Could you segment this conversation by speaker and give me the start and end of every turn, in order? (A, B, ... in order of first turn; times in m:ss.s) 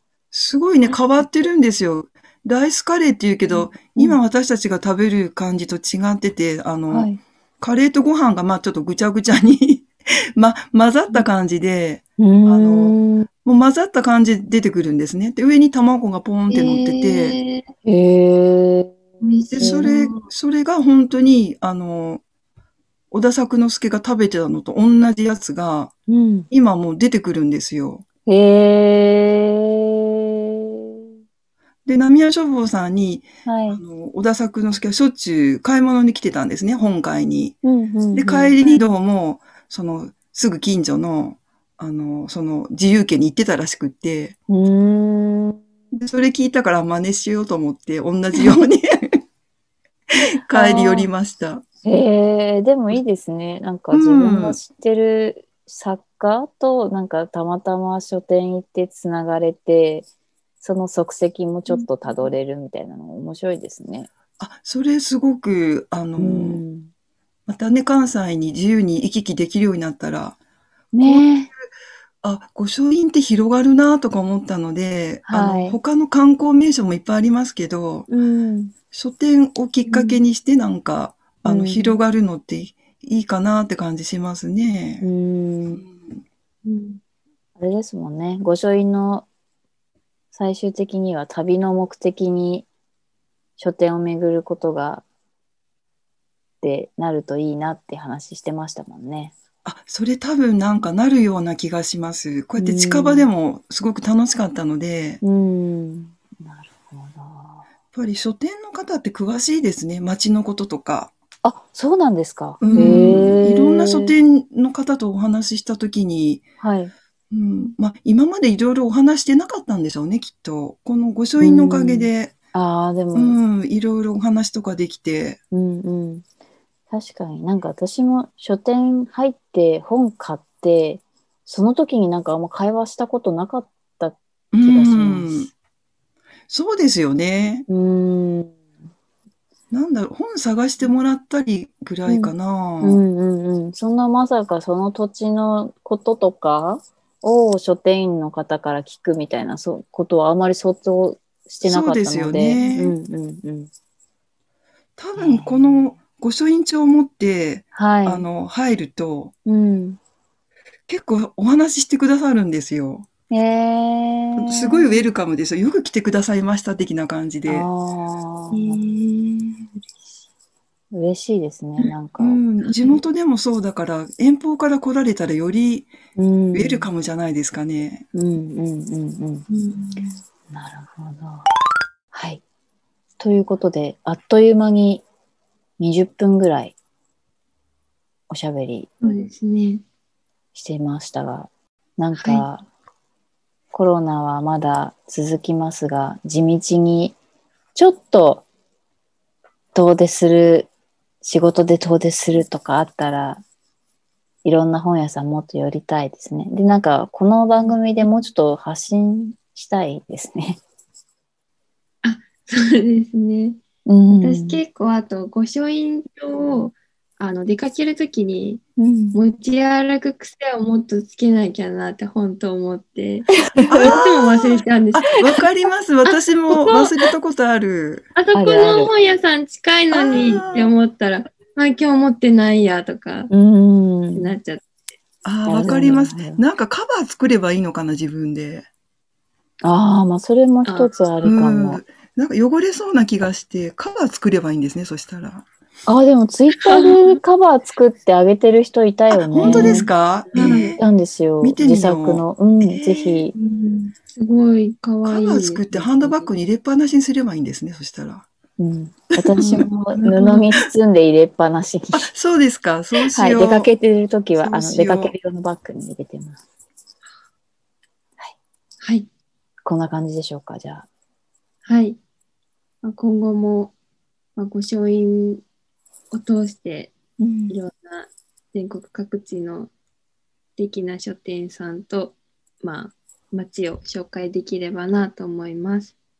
0:00.3-0:17.4 A
0:03.5-0:04.2 B
0:06.9-0:07.2 B
0:12.2-0:13.3 B
0:16.5-0:17.6 C
0:17.8-0:19.9 B
0:19.2-0:20.3 C
0:19.5-0:22.2 A
0:23.1-0:25.9 A
0:26.1-0:26.5 B
0:26.5-0:28.0 A
0:28.3-0:30.4 B
0:31.8-0:37.6 A
0:33.4-0:33.8 B
0:37.6-0:38.6 B
0:38.1-0:44.3 A
0:44.5-0:45.6 B
0:45.9-0:49.2 A
0:50.4-0:51.6 A
0:50.6-0:51.0 B
0:51.8-1:00.1 B
0:53.9-0:54.6 A
1:00.6-1:04.1 B
1:01.7-1:02.3 C
1:04.4-1:06.6 A
1:06.2-1:06.9 B
1:07.5-1:10.4 A
1:10.9-1:11.5 B
1:11.0-1:11.6 A
1:12.2-1:18.1 A
1:15.2-1:15.8 B
1:18.1-1:18.7 B
1:18.9-1:25.1 A
1:19.9-1:20.2 C
1:21.4-1:22.0 B
1:25.0-1:25.8 B
1:25.8-1:26.2 A
1:26.6-1:27.0 C
1:27.6-1:29.2 B
1:30.3-1:32.6 B
1:33.6-1:35.0 B
1:36.6-1:39.3 B
1:39.6-1:45.2 A
1:42.6-1:43.3 B
1:45.2-1:47.6 B
1:47.9-1:51.1 A
1:51.4-1:54.1 B
1:52.6-1:56.4 A
1:56.6-1:56.9 B
1:57.3-2:02.3 A
2:01.4-2:03.4 B
2:03.1-2:05.4 A
2:05.5-2:06.2 B
2:06.9-2:15.5 B
2:14.5-2:15.5 A
2:16.5-2:17.6 A
2:17.7-2:18.6 B
2:19.7-2:23.0 A
2:22.1-2:33.7 B
2:31.6-2:32.9 A
2:32.5-2:32.9 C
2:35.0-2:39.3 A
2:35.2-2:36.0 B
2:37.7-2:38.2 B
2:39.4-2:40.0 B
2:40.9-2:43.1 A
2:43.3-2:45.0 B
2:44.4-2:47.7 A
2:47.5-2:48.8 B
2:48.5-2:49.9 C
2:50.9-2:52.4 B
2:52.2-2:55.9 A
2:52.6-2:53.0 C
2:56.2-2:56.9 B
2:56.5-2:58.0 A
2:58.1-2:59.4 B
2:59.5-3:00.2 C
3:00.5-3:01.5 B
3:02.1-3:02.4 B
3:03.2-3:05.0 B
3:05.8-3:06.7 B
3:08.3-3:09.1 B
3:09.0-3:09.8 C
3:10.5-3:12.6 B
3:12.1-3:12.4 C
3:13.7-3:17.2 B
3:17.7-3:18.4 B
3:19.7-3:20.7 B
3:21.2-3:23.4 B
3:24.4-3:30.6 B
3:32.0-3:33.6 C
3:33.9-3:34.6 B
3:34.2-3:45.2 C
3:38.8-3:39.2 B
3:43.5-3:43.9 B
3:43.7-3:48.0 A
3:46.0-3:46.9 C
3:48.2-3:53.3 C
3:48.3-3:48.9 B
3:49.9-3:50.7 A
3:53.3-3:54.3 B
3:54.1-3:54.7 C
3:55.2-3:58.6 A
3:55.4-3:56.4 B
3:59.6-4:01.8 B
4:00.6-4:00.9 C
4:01.2-4:05.4 A
4:05.9-4:13.3 B
4:06.6-4:07.2 C
4:09.3-4:10.8 A
4:09.4-4:10.8 C
4:11.4-4:13.2 A
4:13.3-4:16.3 C
4:15.0-4:18.2 A
4:18.6-4:22.1 B
4:19.1-4:20.2 A
4:20.1-4:20.4 C
4:21.9-4:23.7 A
4:23.1-4:26.4 B
4:24.4-4:25.1 A
4:28.8-4:29.1 C
4:29.6-4:30.9 B
4:31.6-4:32.0 C
4:32.8-4:33.7 C
4:34.4-4:35.4 C
4:36.1-4:36.9 C
4:37.2-4:37.5 B
4:37.5-4:39.7 C
4:40.6-4:45.9 C